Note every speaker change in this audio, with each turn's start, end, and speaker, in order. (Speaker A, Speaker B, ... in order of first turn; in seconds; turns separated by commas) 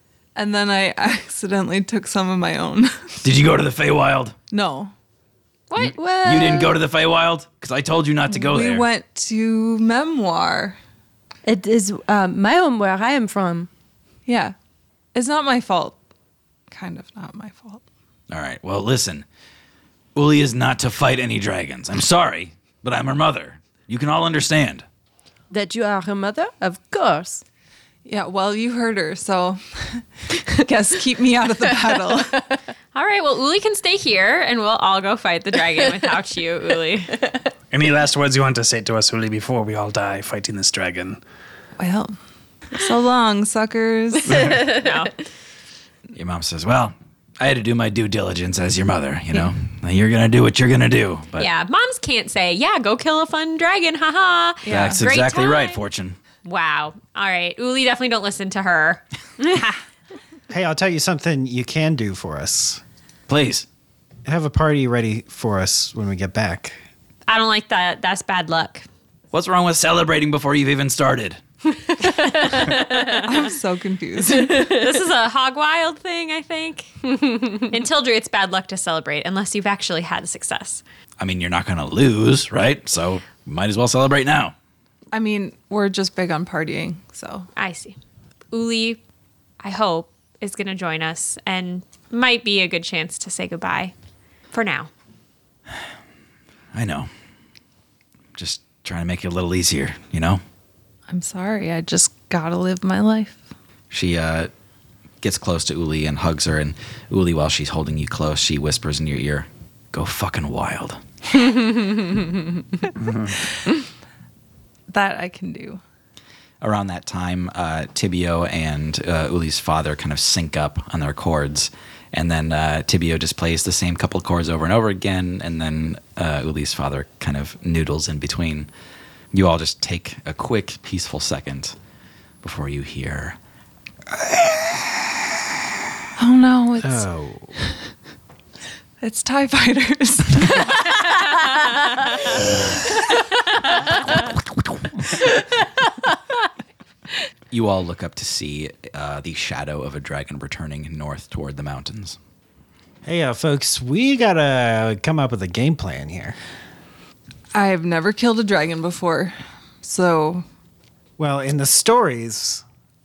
Speaker A: 0.3-3.2, Speaker B: 3.2-4.3, Speaker A: 4.5-4.9, Speaker C: 5.7-6.6, Speaker B: 5.8-8.9, Speaker A: 8.3-10.8, Speaker D: 11.5-13.7, Speaker A: 14.3-14.5, Speaker A: 15.1-16.0, Speaker A: 16.7-17.8, Speaker B: 18.3-19.2, Speaker B: 20.1-24.9, Speaker D: 25.5-27.4, Speaker A: 28.1-32.4, Speaker C: 32.9-37.2, Speaker E: 37.7-41.2, Speaker A: 41.8-42.2, Speaker A: 42.7-44.6, Speaker E: 44.3-44.6, Speaker C: 44.4-45.1, Speaker B: 46.1-51.5, Speaker C: 51.4-55.8, Speaker A: 54.6-55.0, Speaker B: 54.7-56.2, Speaker C: 56.4-59.8, Speaker F: 60.5-62.8, Speaker B: 63.3-63.7, Speaker F: 64.2-66.8, Speaker C: 67.3-68.9, Speaker B: 69.3-71.4, Speaker C: 72.0-73.5, Speaker A: 73.2-74.8, Speaker C: 74.3-80.8, Speaker B: 81.2-84.5, Speaker A: 85.1-87.5, Speaker C: 87.6-88.0, Speaker C: 88.5-89.0, Speaker C: 89.6-93.9, Speaker C: 94.5-94.9, Speaker B: 96.7-97.1, Speaker B: 98.4-100.4, Speaker A: 101.1-103.4, Speaker B: 103.9-104.5, Speaker B: 105.2-111.0, Speaker E: 113.0-113.3, Speaker A: 114.9-115.8, Speaker B: 116.6-128.7, Speaker B: 129.3-131.8, Speaker B: 132.4-133.4, Speaker A: 136.2-137.1, Speaker F: 136.8-137.6, Speaker A: 139.0-140.8, Speaker B: 147.5-152.2, Speaker F: 153.0-156.4, Speaker A: 157.5-160.4, Speaker F: 161.2-162.6